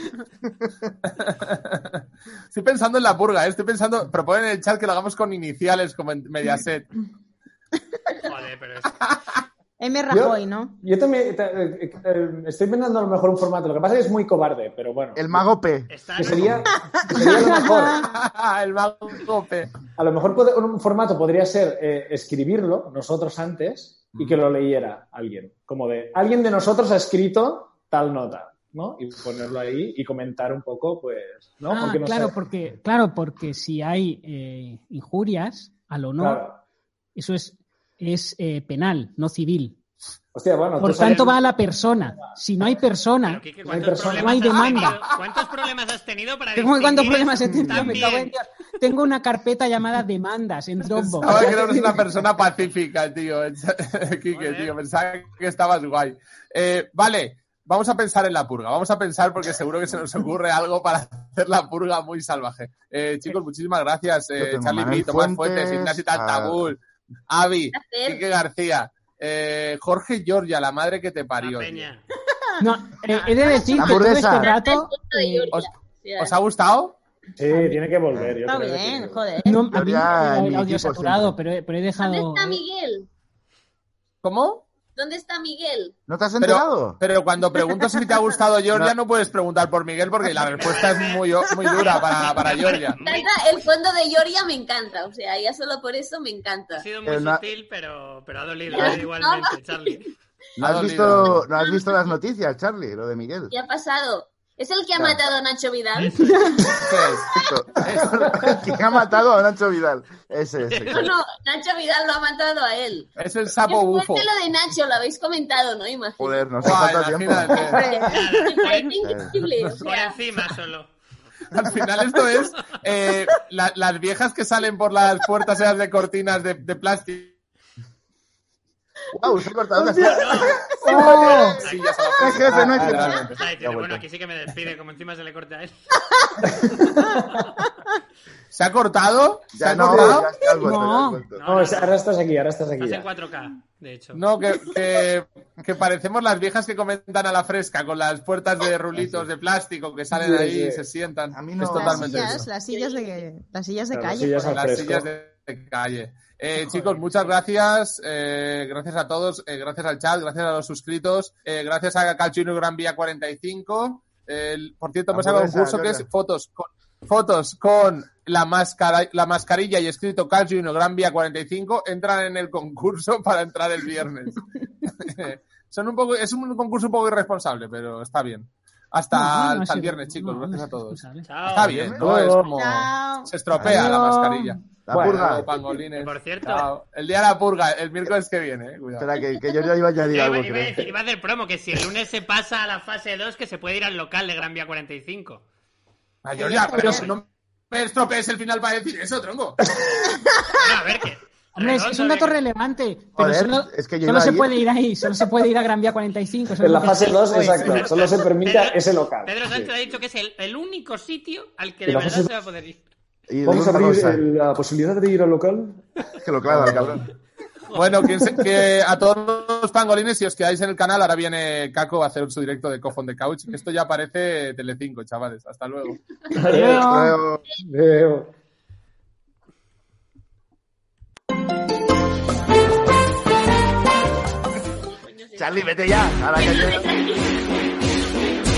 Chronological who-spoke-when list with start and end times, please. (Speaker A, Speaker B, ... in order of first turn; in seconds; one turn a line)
Speaker A: 0.6-0.9
Speaker B: 1.1-6.9
Speaker C: 8.2-8.9
Speaker B: 9.0-9.4
Speaker D: 9.8-10.8
Speaker E: 10.1-15.4
Speaker A: 15.2-16.5
Speaker C: 15.9-16.7
Speaker E: 16.2-18.1
Speaker D: 17.1-18.0
Speaker B: 17.9-19.7
Speaker E: 20.0-32.4
Speaker F: 31.6-36.4
Speaker E: 36.2-36.6
Speaker F: 37.2-39.8
Speaker E: 40.3-41.4
Speaker F: 40.8-43.4
Speaker C: 43.2-48.3
Speaker E: 43.6-44.5
Speaker F: 44.2-45.0
Speaker B: 44.7-45.2
Speaker F: 46.6-52.2
Speaker A: 47.5-48.0
Speaker B: 50.9-71.9
Speaker C: 54.3-54.8
Speaker A: 64.4-66.7
Speaker G: 67.7-68.2
Speaker C: 71.4-72.0
Speaker F: 72.6-75.5
Speaker G: 73.3-76.4
Speaker A: 73.7-74.5
Speaker B: 75.5-77.0
Speaker E: 77.4-79.2
Speaker D: 77.5-77.8
Speaker D: 78.5-79.8
Speaker F: 79.5-82.6
Speaker A: 79.7-81.4
Speaker G: 82.0-83.1
Speaker B: 84.2-84.7
Speaker G: 85.0-86.0
Speaker A: 86.1-87.0
Speaker B: 86.4-93.0
Speaker C: 90.4-93.6
Speaker G: 93.0-96.8
Speaker C: 96.8-100.1
Speaker A: 97.0-97.4
Speaker G: 98.7-100.1
Speaker A: 100.6-103.5
Speaker B: 100.6-101.5
Speaker G: 101.5-102.2
Speaker G: 103.5-107.5
Speaker F: 106.0-106.8
Speaker B: 106.7-107.3
Speaker A: 107.3-111.1
Speaker B: 107.8-108.3
Speaker C: 110.7-111.1
Speaker G: 110.9-116.6
Speaker B: 113.2-114.3
Speaker A: 116.2-117.8
Speaker B: 116.6-117.8
Speaker G: 117.5-120.2
Speaker D: 117.6-118.8
Speaker C: 118.0-119.0
Speaker A: 119.0-119.5
Speaker C: 119.8-120.9
Speaker B: 121.5-127.4
Speaker A: 129.1-131.5
Speaker E: 129.8-131.6
Speaker C: 130.0-132.2
Speaker B: 131.2-133.3
Speaker A: 132.2-133.3
Speaker E: 132.3-134.0
Speaker C: 133.3-135.8
Speaker E: 136.4-137.3
Speaker B: 138.5-140.3
Speaker A: 139.5-141.4
Speaker E: 139.8-140.2
Speaker F: 140.6-141.2
Speaker C: 141.4-142.0
Speaker E: 141.4-143.1
Speaker C: 142.8-144.2
Speaker B: 144.1-152.5
Speaker E: 149.0-149.3
Speaker E: 150.1-150.9
Speaker A: 151.3-152.5
Speaker D: 151.7-154.6
Speaker G: 152.6-153.2
Speaker E: 153.9-155.1
Speaker B: 154.5-189.2
Speaker A: 165.1-166.1
Speaker F: 179.1-181.3
Speaker C: 181.2-181.9
Speaker A: 181.6-182.1
Speaker E: 182.0-182.4
Speaker D: 182.4-183.3
Speaker A: 183.5-183.9
Speaker F: 183.7-184.6
Speaker A: 184.9-185.5
Speaker E: 184.9-185.7
Speaker C: 185.9-186.7
Speaker A: 189.0-190.9
Speaker C: 190.1-195.4
Speaker B: 196.2-199.6
Speaker D: 196.4-197.1
Speaker C: 200.5-202.4
Speaker F: 201.6-207.7
Speaker A: 203.2-204.6
Speaker E: 206.6-209.6
Speaker C: 206.9-212.8
Speaker E: 211.9-212.3
Speaker A: 213.3-214.2
Speaker E: 213.5-215.8
Speaker A: 216.2-217.0
Speaker B: 216.5-217.0
Speaker C: 217.7-218.1
Speaker B: 217.7-226.0
Speaker E: 218.2-218.6
Speaker E: 226.3-226.9
Speaker F: 226.3-227.2
Speaker A: 226.8-227.4
Speaker E: 227.6-228.3
Speaker G: 234.8-235.8
Speaker A: 235.4-236.9
Speaker G: 236.3-237.5